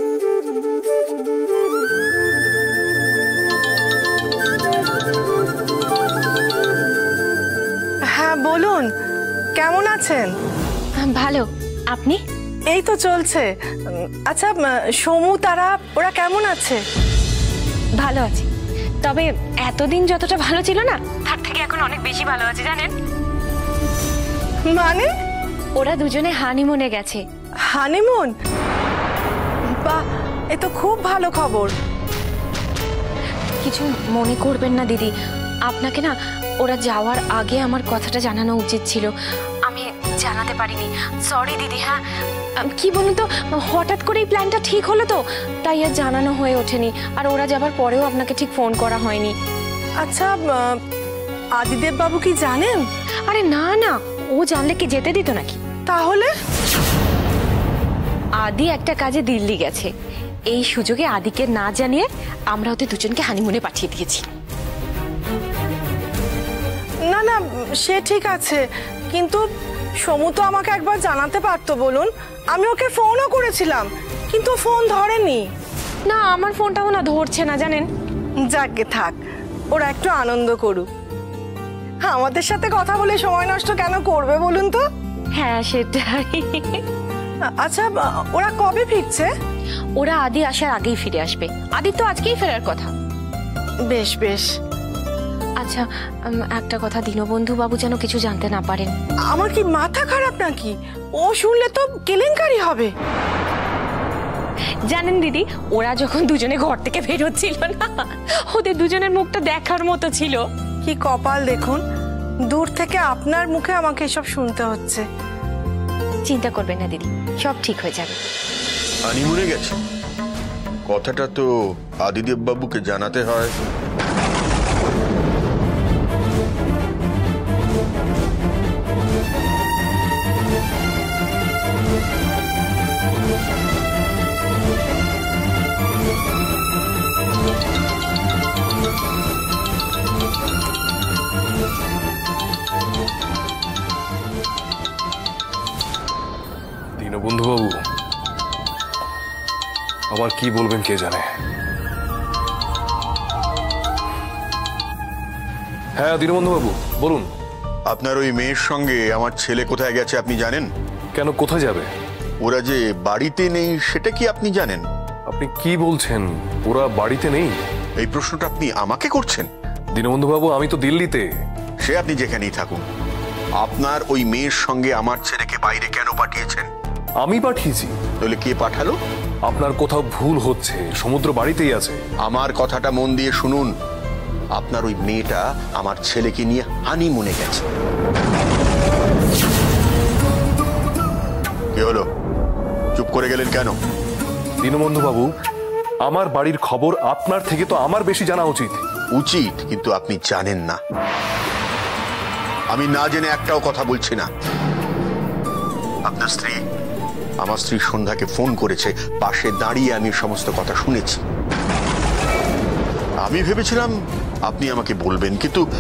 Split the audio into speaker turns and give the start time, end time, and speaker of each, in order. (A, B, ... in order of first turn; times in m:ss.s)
0:08.2-0:08.9 A
0:09.6-0:10.3 A
0:11.0-0:12.2 B
0:12.7-0:13.4 A
0:14.2-0:16.8 A
0:18.0-0:18.5 B
0:19.0-0:22.9 B
0:24.7-0:25.1 A
0:25.8-0:27.2 B
0:27.7-0:28.3 A
0:30.5-0:31.7 A
0:33.6-0:35.1 B
0:35.7-0:39.1 B
0:39.7-0:42.0 B
0:42.6-0:49.3 B
0:50.0-0:50.7 A
0:51.6-0:52.8 A
0:53.3-0:55.6 B
0:55.9-0:56.3 A
0:58.4-0:59.9 B
1:00.5-1:04.2 B
1:07.1-1:09.4 A
1:10.0-1:15.4 A
1:16.1-1:17.9 B
1:18.5-1:19.2 A
1:19.7-1:20.8 A
1:22.1-1:24.8 A
1:25.4-1:26.8 B
1:27.6-1:29.3 A
1:30.0-1:32.9 B
1:33.9-1:34.5 A
1:35.6-1:38.9 B
1:39.3-1:42.9 A
1:44.9-1:50.4 B
1:50.8-1:51.8 A
1:52.5-1:55.0 A
1:56.2-1:58.2 B
1:59.0-1:59.8 C
2:00.9-2:01.5 C
2:02.0-2:03.5 C
2:27.0-2:27.8 D
2:30.1-2:31.3 D
2:36.0-2:37.3 D
2:37.9-2:40.7 C
2:41.1-2:41.9 D
2:42.4-2:44.8 C
2:45.3-2:47.6 D
2:48.0-2:49.5 C
2:50.0-2:51.2 D
2:51.8-2:52.8 C
2:53.6-2:56.7 C
2:57.2-2:58.0 D
2:58.2-2:58.9 C
2:59.5-3:02.0 D
3:02.2-3:03.7 C
3:04.6-3:07.6 C
3:11.8-3:12.0 C
3:13.0-3:13.8 C
3:14.6-3:15.3 D
3:16.0-3:18.8 D
3:19.2-3:20.8 C
3:22.7-3:24.3 C
3:26.1-3:26.6 C
3:27.4-3:31.2 C
3:33.2-3:33.9 C
3:34.4-3:35.7 C